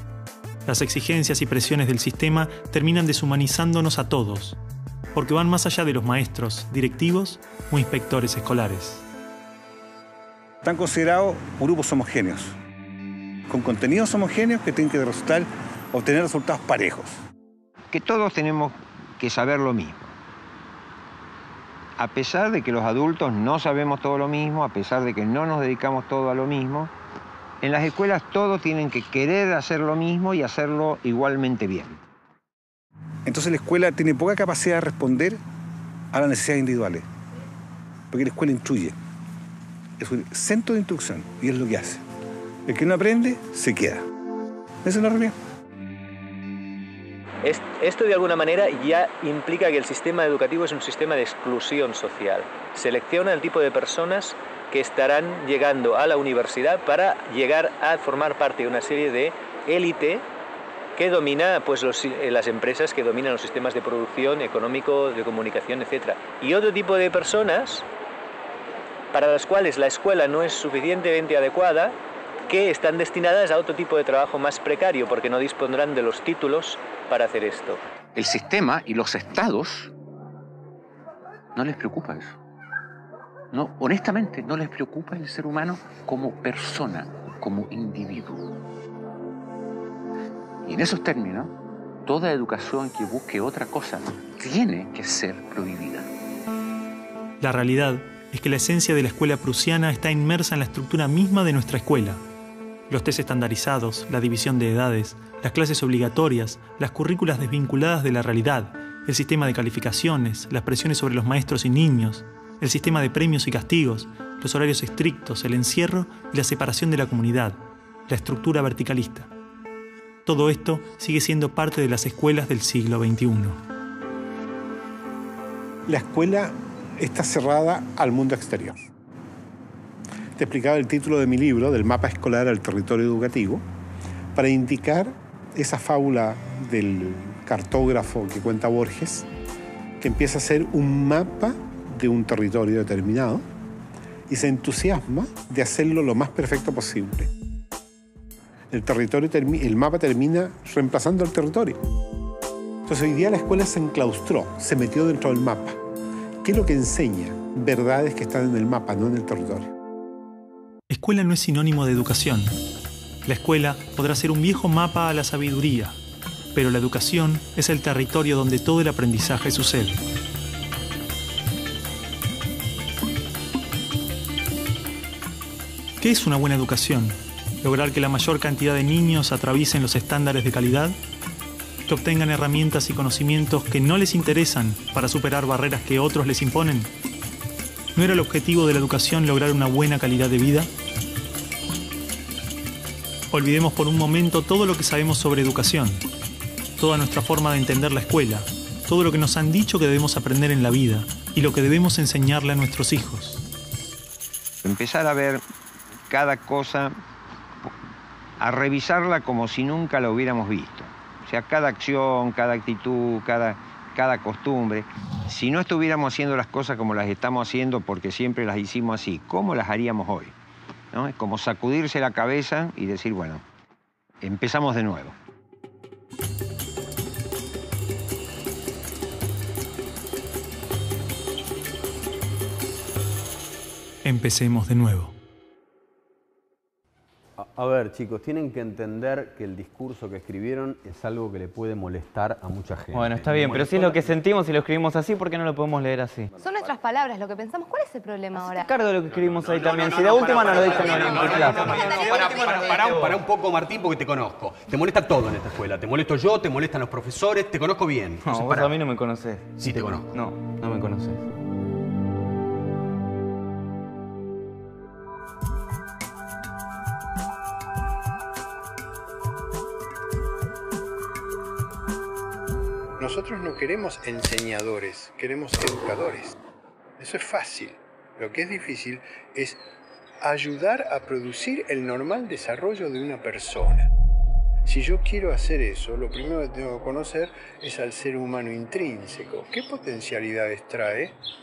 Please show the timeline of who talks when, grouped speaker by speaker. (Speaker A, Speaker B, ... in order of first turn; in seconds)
Speaker A: 0.7-4.6, 5.2-9.0, 97.4-102.2, 102.9-119.3, 120.2-123.6, 160.9-162.6, 163.2-166.0, 166.5-170.0, 176.0-181.0, 181.9-186.9, 188.0-190.7, 193.3-196.0, 196.8-203.4, 234.0-235.2
Speaker B: 10.6-12.6, 13.5-17.2, 33.3-35.4, 36.1-37.0, 38.1-39.0, 40.0-42.0, 42.7-44.0, 44.8-45.4
Speaker C: 17.9-20.1, 22.0-26.9, 27.6-32.0, 204.6-205.4, 206.1-206.9, 208.4-220.3, 220.9-223.4, 224.2-225.2
Speaker D: 47.4-60.3, 61.0-67.9, 69.1-77.8
Speaker E: 78.2-79.9, 81.5-82.4, 83.5-88.6, 90.6-96.1
Speaker F: 125.9-128.9, 130.4-133.6, 134.3-139.3, 140.0-143.4, 144.3-147.3, 148.7-151.8, 152.9-155.8, 156.4-159.8
Speaker G: 237.4-244.2, 246.4-246.8, 249.0-258.8, 259.6-260.2
Speaker H: 242.9-246.3, 248.7-253.1, 258.2-261.2
Speaker I: 246.4-248.7, 251.7-252.7
Speaker J: 273.0-276.4, 277.0-279.6, 280.2-283.9, 284.6-291.2